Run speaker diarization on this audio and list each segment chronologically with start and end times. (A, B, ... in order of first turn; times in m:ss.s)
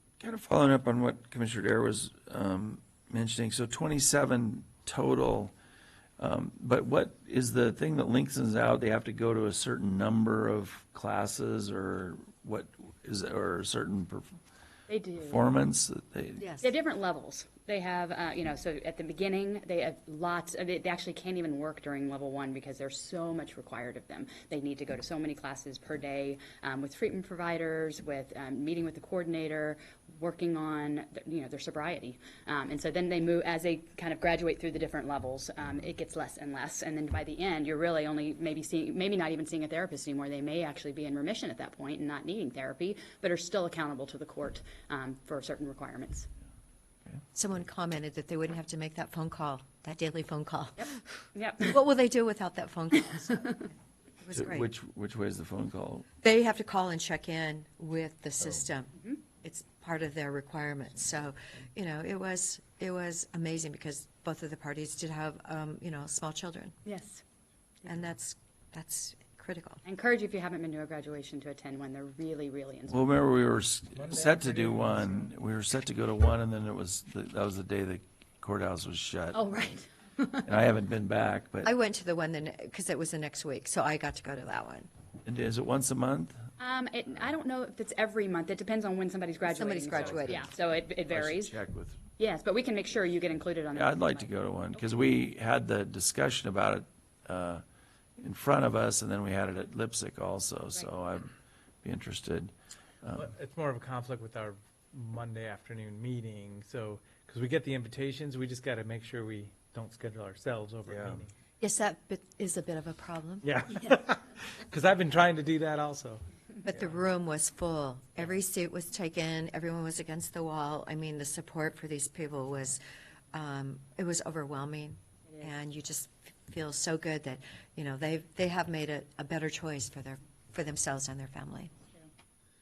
0:00.2-0:05.5 A
0:06.2-0:14.3 A
0:14.9-0:15.4 B
0:15.2-0:16.4 A
0:16.4-0:16.7 C
0:16.6-0:46.3 B
0:47.3-0:51.0 C
0:51.3-0:51.8 B
0:51.6-0:53.7 C
0:54.2-0:54.7 C
0:54.3-0:56.1 A
0:56.2-1:06.7 C
1:06.8-1:07.2 B
1:07.8-1:09.8 C
1:09.8-1:13.0 B
1:12.9-1:19.4 A
1:14.1-1:14.9 D
1:19.3-1:20.5 B
1:20.4-1:21.7 A
1:21.6-1:24.9 C
1:25.2-1:26.4 A
1:26.6-1:31.5 B
1:29.5-1:30.4 C
1:29.9-1:30.4 A
1:31.1-1:32.0 A
1:32.2-1:34.3 B
1:33.7-1:37.6 A
1:38.2-1:41.3 A
1:41.8-1:42.5 A
1:43.1-1:51.3 D
1:50.9-1:51.2 A
1:51.6-1:53.5 C
1:53.4-1:56.2 D
1:56.6-2:02.8 C
2:03.3-2:11.7 C